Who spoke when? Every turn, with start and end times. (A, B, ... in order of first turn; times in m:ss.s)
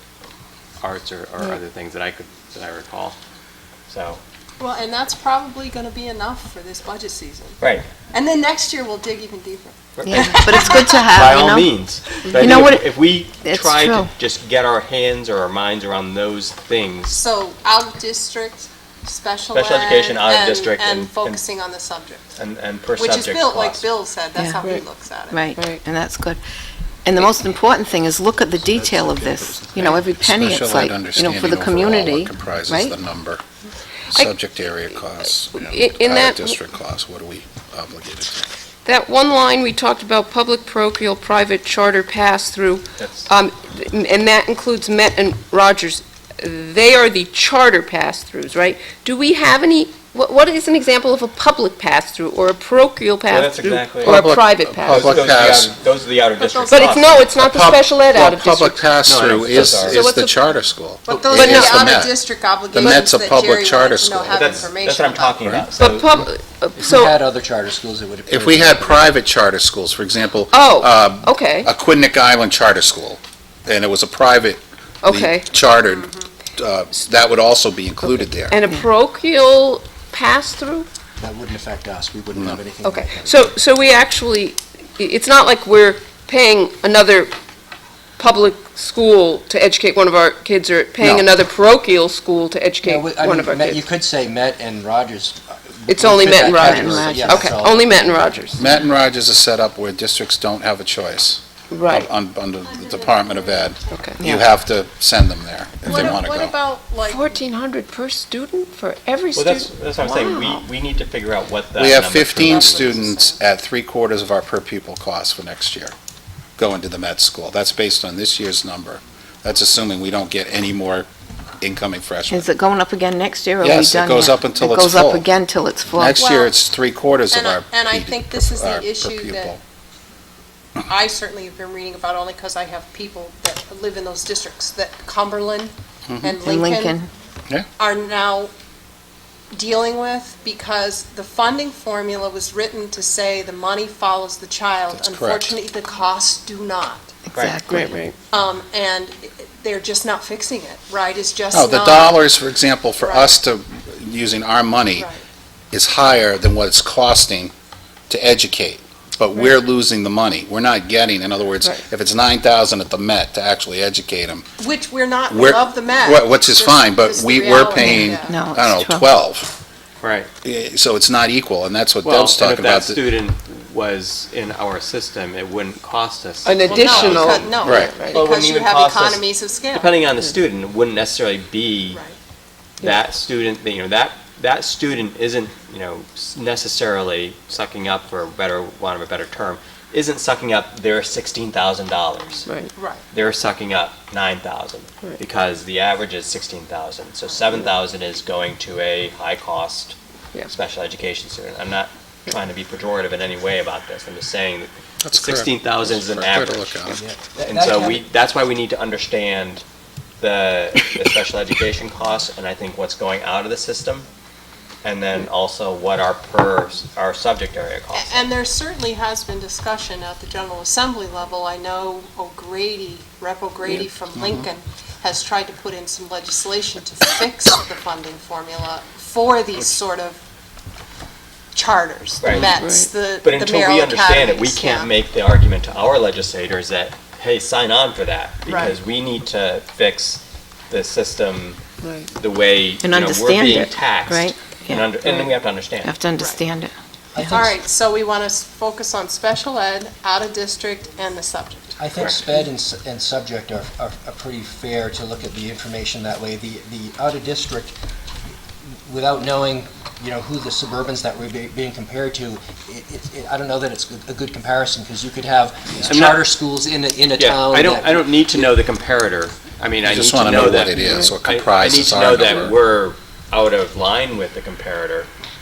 0:00.8-0:03.2 A
0:03.9-0:04.2 A
0:04.6-0:07.6 B
0:07.6-0:07.8 A
0:08.1-0:11.1 B
0:10.0-0:17.2 A
0:10.0-0:11.7 C
0:12.4-0:14.1 C
0:17.1-0:22.3 B
0:19.5-0:21.4 A
0:22.4-0:23.9 A
0:23.0-0:25.4 B
0:25.3-0:26.4 C
0:25.6-0:25.8 D
0:27.0-0:32.9 C
0:28.8-0:33.4 E
0:34.1-0:38.5 E
0:35.5-0:36.6 D
0:38.8-0:55.4 D
0:43.0-0:43.3 A
0:53.3-0:54.2 A
0:54.0-0:55.7 E
0:54.8-0:57.3 A
0:56.4-0:57.3 B
0:56.7-0:58.8 D
0:57.4-1:04.7 E
0:59.0-1:00.0 A
0:59.8-1:00.4 D
1:01.0-1:05.4 B
1:01.3-1:01.8 D
1:02.8-1:03.1 D
1:04.3-1:06.2 A
1:05.4-1:05.7 E
1:05.8-1:07.1 D
1:06.8-1:09.2 F
1:08.3-1:18.6 E
1:10.5-1:11.7 D
1:15.0-1:15.5 D
1:15.8-1:16.3 B
1:18.5-1:20.9 D
1:21.2-1:23.5 F
1:22.3-1:22.6 E
1:22.8-1:27.3 D
1:28.2-1:33.8 D
1:31.0-1:31.3 E
1:32.8-1:38.4 F
1:35.9-1:38.6 D
1:36.8-1:37.4 C
1:38.6-1:46.5 E
1:41.7-1:42.1 D
1:42.7-1:44.4 B
1:44.2-1:44.4 C
1:45.8-1:47.4 B
1:47.0-1:50.6 D
1:49.3-1:52.9 A
1:51.8-1:55.9 E
1:52.4-1:53.4 B
1:56.6-2:01.1 E
2:01.6-2:02.5 E
2:02.3-2:06.2 C
2:03.6-2:05.3 E
2:05.9-2:09.6 E
2:06.2-2:06.5 B
2:07.3-2:09.5 B
2:10.8-2:17.0 B
2:16.1-2:16.4 E
2:16.4-2:17.1 C
2:17.8-2:18.5 B
2:19.5-2:27.1 B
2:25.0-2:25.6 E
2:27.3-2:28.0 C
2:27.3-2:27.6 A
2:27.7-2:28.2 D
2:28.3-2:32.2 B
2:31.5-2:35.1 E
2:33.0-2:33.4 B
2:35.7-2:37.5 E
2:38.1-2:44.4 E
2:44.6-2:48.4 B
2:45.3-2:49.6 E
2:47.7-2:49.1 C
2:50.0-2:50.3 A
2:50.4-2:53.0 E
2:52.0-3:02.0 A
2:56.4-2:58.2 D
2:56.7-3:00.0 B
2:57.6-2:57.9 E
3:02.8-3:12.5 A
3:12.8-3:13.0 B
3:13.1-3:20.0 A
3:20.5-3:26.8 A
3:25.0-3:27.0 E
3:26.9-3:28.0 F
3:27.4-3:29.6 A
3:30.2-3:34.1 A
3:34.8-3:38.3 A
3:37.9-3:50.2 B
3:44.2-3:44.4 E
3:51.6-3:54.9 B
3:52.2-3:52.5 A
3:52.4-3:52.9 D
3:53.2-4:05.9 A
3:58.5-3:58.8 B
4:01.8-4:02.1 D
4:02.8-4:04.9 C
4:05.8-4:07.5 C
4:07.2-4:07.6 F
4:07.3-4:11.8 B
4:11.8-4:17.8 F
4:18.9-4:28.5 F
4:25.8-4:26.2 A
4:27.1-4:35.1 A
4:29.8-4:32.6 E
4:30.8-4:31.1 D